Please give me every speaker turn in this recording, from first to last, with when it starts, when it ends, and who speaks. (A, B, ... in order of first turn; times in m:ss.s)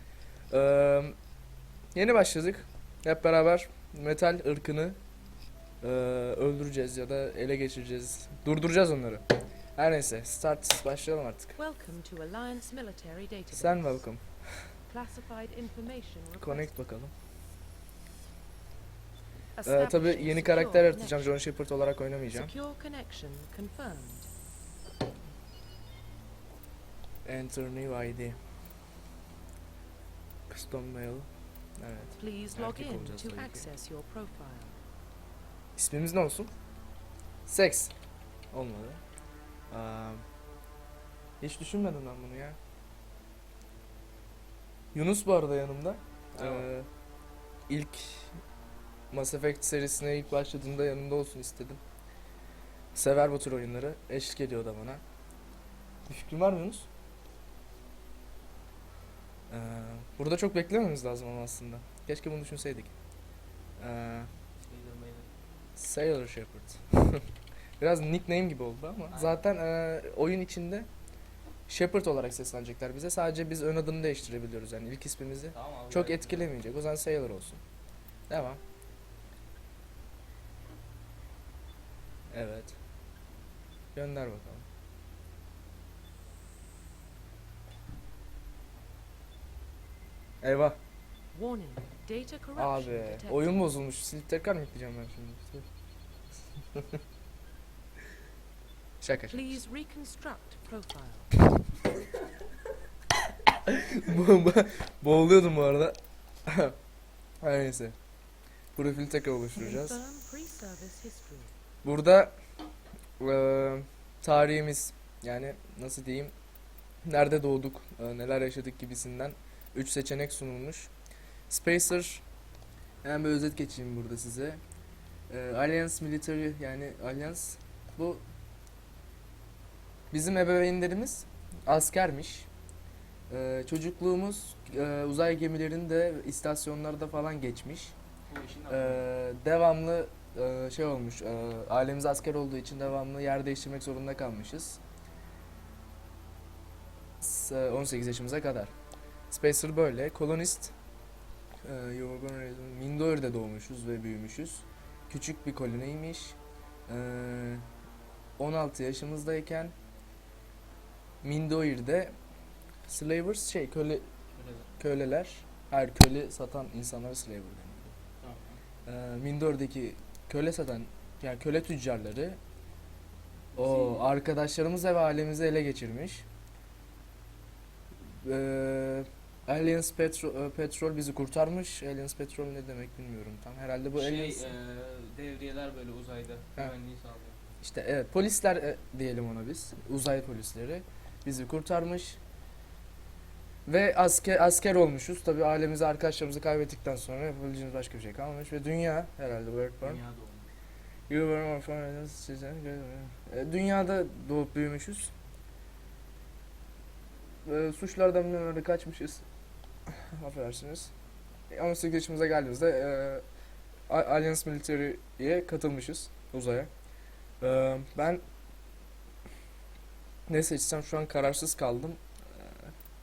0:00.5-0:01.2 A
0:01.9-0:05.0 A
0:05.8-0:09.2 A
0:09.8-0:11.6 A
0:11.6-0:14.1 B
0:13.5-0:14.7 A
0:14.9-0:16.8 B
0:16.4-0:17.1 A
0:19.6-0:21.4 B
0:19.6-0:22.5 A
0:22.3-0:24.3 B
0:27.2-0:28.4 A
0:30.5-0:33.7 A
0:32.2-0:34.8 B
0:35.8-0:36.5 A
0:37.5-0:37.9 A
0:38.5-0:39.0 A
0:39.7-0:40.2 A
0:41.4-0:42.6 A
0:44.9-0:46.9 A
0:46.4-0:46.7 C
0:47.7-0:48.4 A
0:49.1-0:51.8 A
0:52.9-0:55.0 A
0:56.1-0:56.9 A
0:59.5-1:02.9 A
1:03.8-1:04.3 A
1:04.6-1:05.3 C
1:05.8-1:07.2 A
1:07.8-1:10.9 A
1:09.1-1:09.5 C
1:11.7-1:17.6 A
1:15.5-1:16.6 C
1:18.3-1:18.6 A
1:22.3-1:22.8 A
1:24.0-1:24.6 A
1:30.4-1:30.8 A
1:31.3-1:33.6 B
1:32.6-1:35.7 A
1:39.0-1:39.6 A
1:39.3-1:41.4 B
1:43.7-1:46.8 A
1:47.4-1:48.0 A
1:48.8-1:50.0 A
1:49.5-1:51.5 B
1:51.8-1:52.4 A
1:53.2-1:56.3 A
1:57.0-2:00.9 A
2:01.5-2:02.2 A
2:03.0-2:04.6 A
2:05.3-2:08.2 A
2:10.1-2:12.5 A
2:13.3-2:17.9 A
2:18.3-2:19.1 C
2:18.7-2:24.8 A
2:27.2-2:28.7 A
2:29.3-2:30.7 A
2:31.6-2:36.4 A
2:36.9-2:37.6 A
2:38.4-2:39.7 A
2:41.2-2:42.2 A
2:42.9-2:44.1 A
2:44.3-2:44.7 C
2:44.8-2:47.9 A
2:48.2-2:48.6 C
2:48.9-2:52.4 A
2:53.5-2:54.2 C
2:53.6-2:56.2 A
2:58.0-3:04.5 A
3:03.9-3:07.4 C
3:07.6-3:12.2 A
3:13.7-3:20.0 A
3:19.8-3:20.5 C
3:21.1-3:25.1 A
3:27.5-3:29.2 A
3:29.9-3:30.9 A
3:31.5-3:33.2 A
3:33.9-3:36.7 A
3:37.4-3:38.2 A
3:40.3-3:42.7 A